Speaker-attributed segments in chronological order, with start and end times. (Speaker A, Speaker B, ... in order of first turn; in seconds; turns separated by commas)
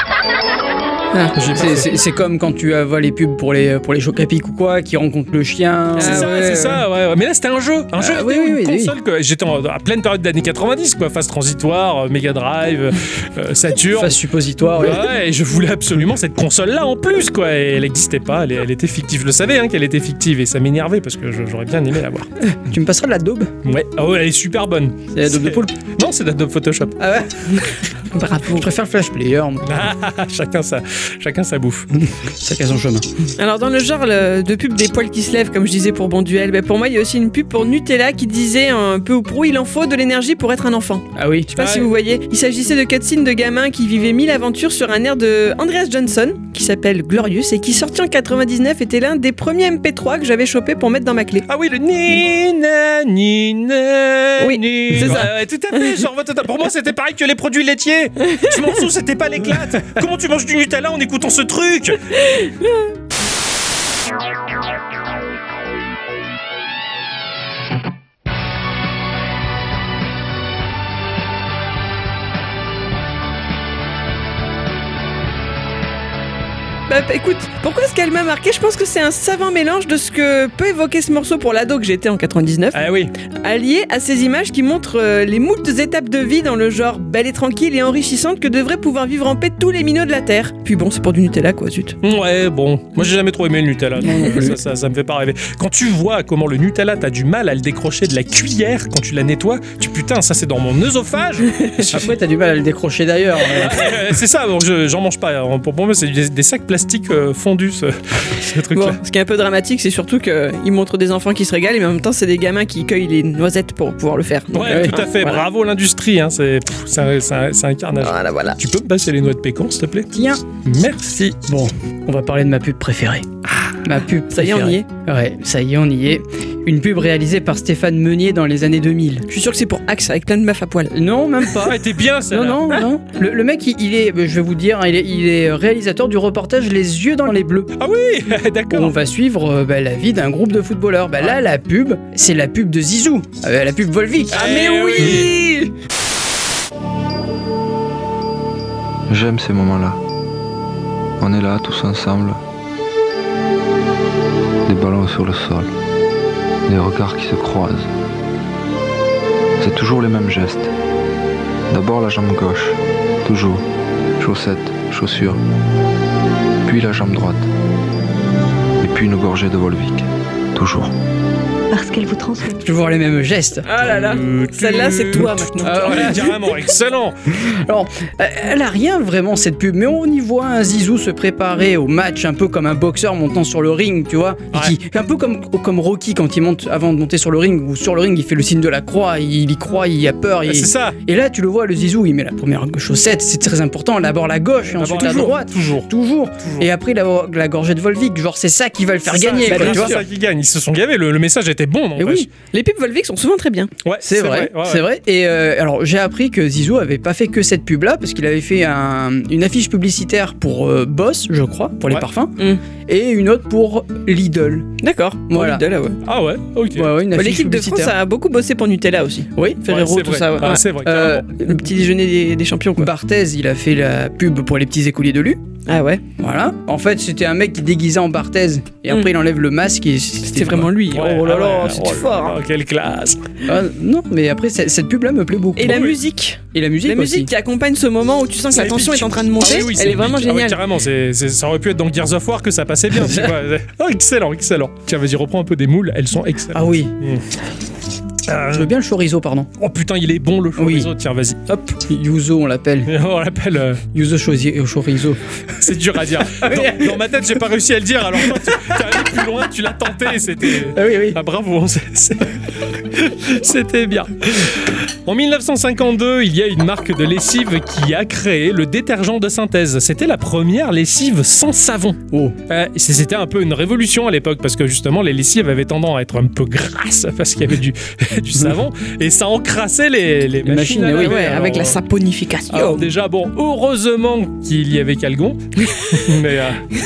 Speaker A: 1.1-1.4, Speaker B: 1.4-1.9, Speaker C: 1.5-6.8, Speaker A: 6.0-6.3, Speaker B: 6.0-14.2, Speaker C: 8.0-8.9, Speaker C: 13.9-15.1, Speaker B: 14.8-22.3, Speaker C: 22.6-23.5, Speaker B: 23.6-27.0, Speaker C: 25.1-25.7, Speaker C: 27.0-27.3, Speaker A: 28.1-28.7, Speaker C: 28.4-29.6, Speaker B: 29.6-31.9, Speaker C: 32.0-33.1, Speaker A: 33.4-51.4, Speaker C: 41.1-41.7, Speaker B: 41.6-41.8, Speaker B: 51.5-62.0, Speaker A: 54.4-55.9, Speaker A: 62.2-62.8, Speaker A: 76.9-82.8, Speaker B: 82.7-83.1, Speaker A: 83.4-92.0, Speaker B: 92.0-102.1, Speaker C: 94.0-94.5, Speaker C: 101.9-104.0, Speaker B: 103.5-109.0, Speaker A: 108.7-115.4, Speaker B: 114.5-120.1, Speaker C: 114.6-115.0, Speaker A: 118.0-118.6, Speaker C: 120.1-120.4, Speaker B: 120.6-121.3, Speaker C: 121.0-123.3, Speaker C: 123.8-129.2, Speaker A: 124.3-124.8, Speaker A: 129.3-130.9, Speaker C: 130.9-137.7, Speaker B: 131.6-132.7, Speaker B: 137.8-138.9, Speaker C: 138.7-145.2, Speaker B: 144.3-145.3, Speaker A: 144.3-145.7, Speaker D: 149.1-150.0, Speaker D: 151.2-152.4, Speaker D: 154.7-155.7, Speaker D: 156.7-157.9, Speaker D: 159.6-160.7, Speaker D: 161.7-163.6, Speaker D: 164.2-165.4, Speaker D: 166.7-167.5, Speaker D: 168.8-170.9, Speaker C: 172.6-173.6, Speaker A: 173.7-176.3, Speaker B: 173.8-177.2, Speaker C: 175.6-176.2, Speaker C: 177.4-200.0, Speaker B: 190.5-191.0, Speaker B: 194.7-195.9, Speaker B: 196.4-196.7, Speaker B: 199.1-202.3, Speaker A: 199.5-200.0, Speaker C: 202.0-202.3, Speaker A: 202.5-203.7, Speaker B: 203.8-204.8, Speaker C: 204.0-212.3, Speaker C: 212.9-214.7, Speaker A: 214.8-216.0, Speaker C: 215.3-215.6, Speaker B: 216.0-216.9, Speaker C: 216.8-217.9, Speaker A: 217.2-222.9, Speaker C: 219.3-219.6, Speaker B: 219.7-221.2, Speaker C: 220.8-221.6, Speaker C: 222.8-225.4, Speaker A: 225.7-226.0, Speaker C: 226.2-230.7, Speaker A: 230.3-232.3, Speaker B: 230.9-233.2, Speaker C: 233.5-235.9, Speaker A: 235.6-240.6, Speaker B: 235.7-235.9, Speaker C: 236.5-237.3, Speaker B: 238.5-247.2, Speaker C: 242.9-243.3, Speaker C: 246.5-246.9, Speaker B: 248.3-248.7, Speaker C: 248.5-249.5, Speaker B: 249.6-251.7, Speaker C: 250.6-250.9, Speaker C: 251.8-252.9, Speaker B: 252.9-253.8, Speaker C: 253.9-255.2, Speaker B: 255.6-281.8, Speaker C: 256.4-257.0, Speaker C: 258.2-258.5, Speaker C: 260.7-261.2, Speaker C: 272.1-272.4, Speaker C: 280.4-281.2, Speaker A: 281.0-282.8, Speaker B: 282.5-286.6